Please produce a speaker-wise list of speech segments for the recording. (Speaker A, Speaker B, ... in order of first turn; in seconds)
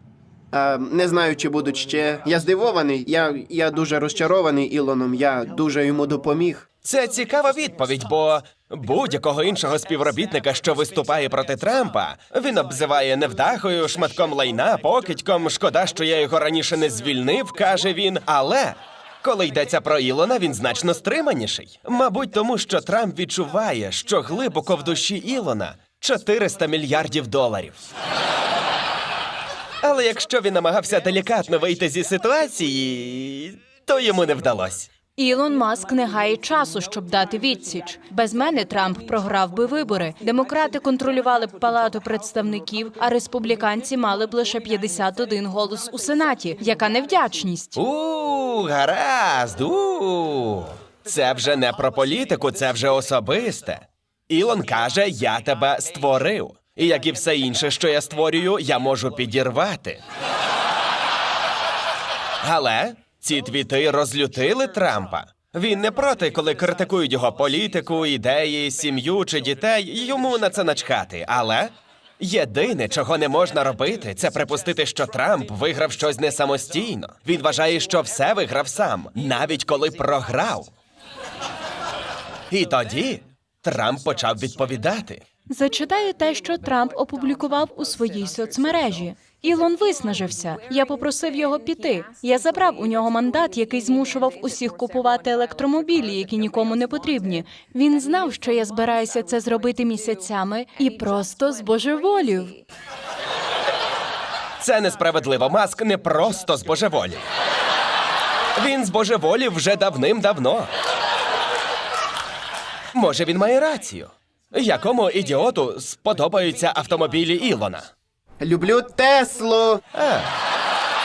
Speaker A: 0.5-6.7, 118.4-119.8
Speaker B: 6.8-27.8, 29.8-34.9, 47.8-60.0, 62.4-80.7, 82.5-85.2, 104.6-107.2, 108.5-110.7, 112.9-117.9, 119.9-120.3
Speaker C: 35.2-47.8, 85.5-102.6